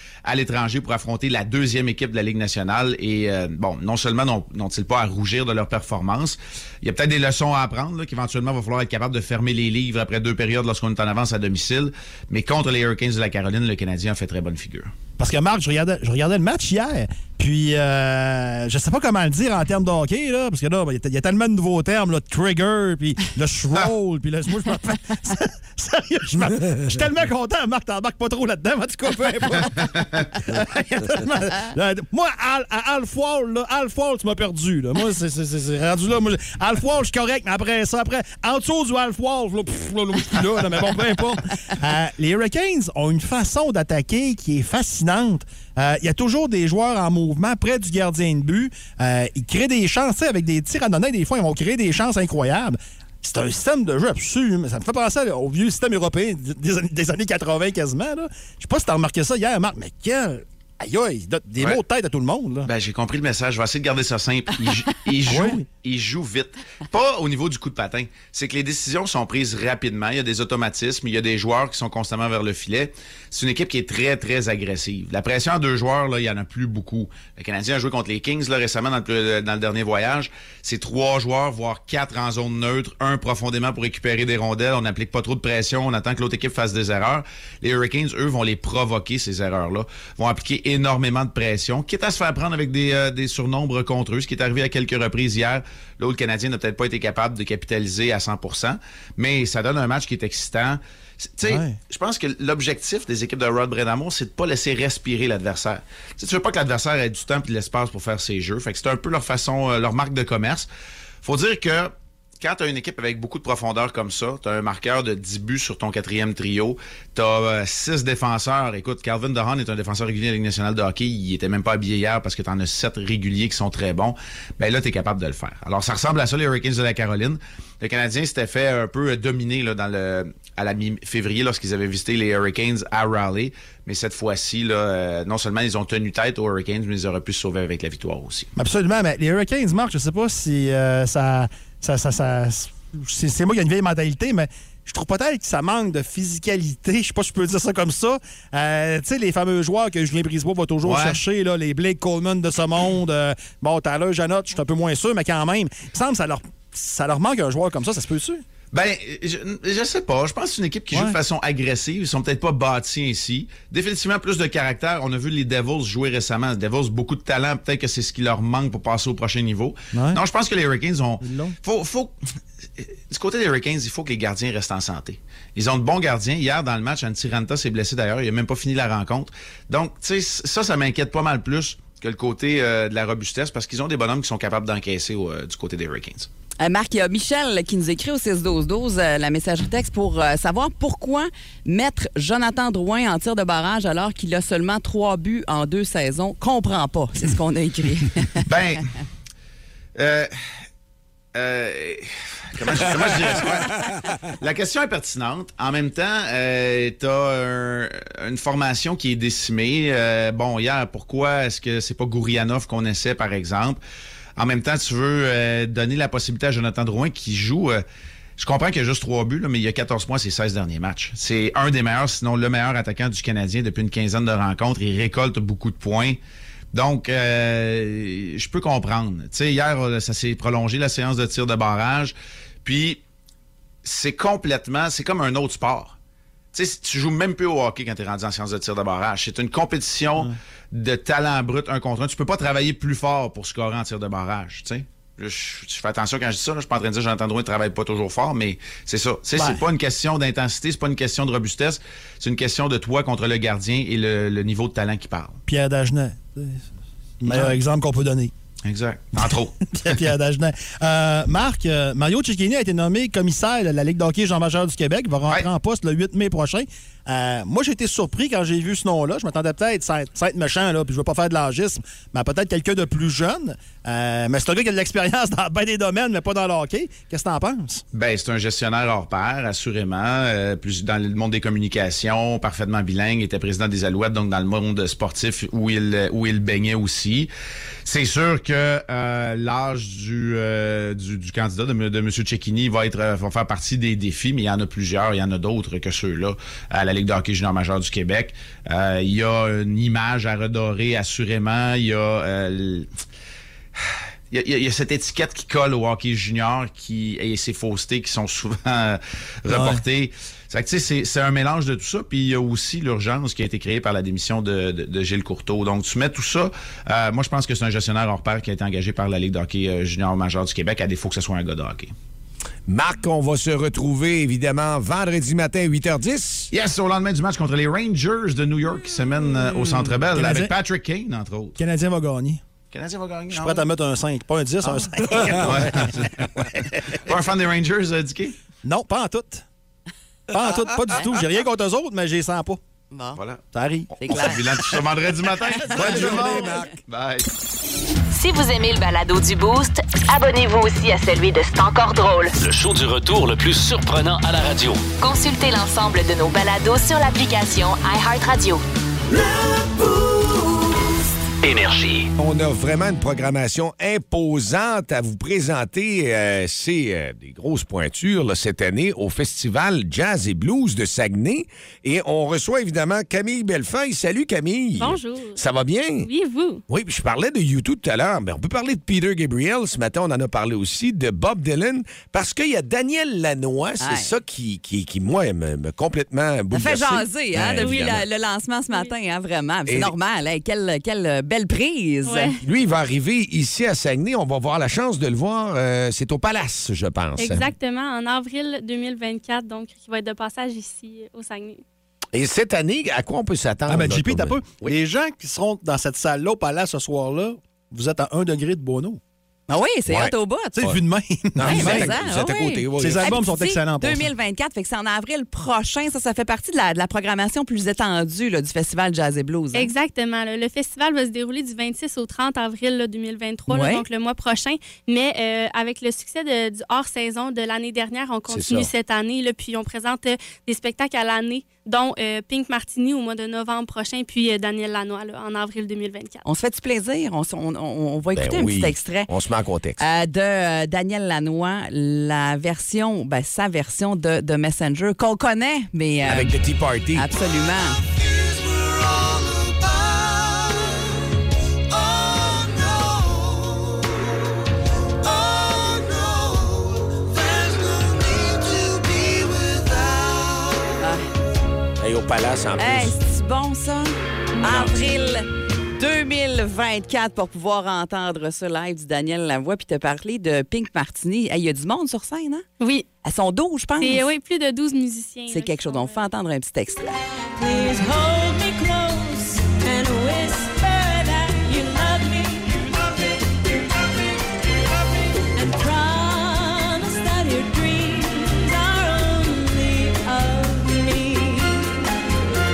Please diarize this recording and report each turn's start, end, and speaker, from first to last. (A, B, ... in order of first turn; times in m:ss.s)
0:00.3-0:14.9 A
0:15.2-1:02.7 B
1:02.7-1:50.7 A
1:05.3-1:05.6 B
1:41.5-1:41.8 B
1:51.2-2:18.5 A
2:18.6-2:38.4 B
2:30.8-2:31.2 A
2:38.7-2:52.2 A
2:49.9-2:50.2 B
2:51.2-2:51.6 B
2:52.8-3:06.3 A
3:06.6-3:18.4 C
3:18.5-3:18.8 A
3:20.0-3:20.3 A
3:21.3-3:33.8 A
3:34.4-3:37.8 A
3:38.4-3:46.2 A
3:46.7-3:53.0 A
3:53.8-3:56.0 A
3:56.5-4:15.4 A
4:09.4-4:09.6 B
4:15.5-4:16.7 B
4:17.2-4:18.3 B
4:17.2-4:17.6 A
4:18.6-4:19.9 A
4:19.7-4:37.8 B
4:37.9-4:47.3 A
4:47.8-5:02.9 A
5:04.3-5:21.9 A
5:09.5-5:09.8 B
5:22.7-5:26.5 D
5:26.5-5:31.6 A
5:30.1-5:30.5 B
5:31.6-5:32.4 B
5:32.7-5:33.7 A
5:33.3-5:36.1 B
5:34.7-5:38.3 A
5:35.1-5:35.4 D
5:38.6-5:39.4 B
5:40.3-5:42.6 B
5:42.9-5:43.2 C
5:43.2-5:43.4 A
5:43.5-5:43.9 B
5:44.0-5:44.6 C
5:44.0-5:47.3 A
5:45.6-5:46.0 C
5:45.7-5:46.7 D
5:45.8-5:46.5 B
5:48.1-5:52.4 E
5:52.4-5:54.9 F
5:55.0-5:58.6 E
6:01.4-6:02.1 F
6:02.2-6:16.1 D
6:14.8-6:15.4 G
6:16.0-6:16.6 G
6:16.7-6:28.0 D
6:23.8-6:24.1 C
6:26.5-6:32.3 C
6:27.6-6:28.0 G
6:29.7-6:29.9 D
6:32.0-6:32.4 G
6:32.4-6:37.5 D
6:37.2-6:41.6 G
6:42.1-6:44.7 D
6:43.7-6:49.0 B
6:49.5-6:50.6 C
6:49.9-6:50.8 D
6:50.6-6:52.0 B
6:51.4-6:53.1 D
6:51.4-6:59.7 C
6:52.8-6:54.1 B
6:59.5-7:16.2 G
7:03.5-7:03.8 C
7:08.3-7:08.7 D
7:16.2-7:19.1 C
7:18.2-7:19.8 D
7:19.8-7:26.4 C
7:26.0-7:27.2 D
7:26.9-7:27.8 C
7:32.2-7:32.4 D
7:35.4-7:36.5 D
7:37.3-7:40.6 D
7:40.8-7:41.0 C
7:41.8-7:43.0 D
7:42.6-7:52.5 C
7:44.4-7:44.7 D
7:52.6-7:52.9 G
7:53.0-7:54.1 C
7:53.8-7:56.1 G
7:55.3-7:56.9 C
7:57.4-8:02.9 H
8:05.2-8:11.8 H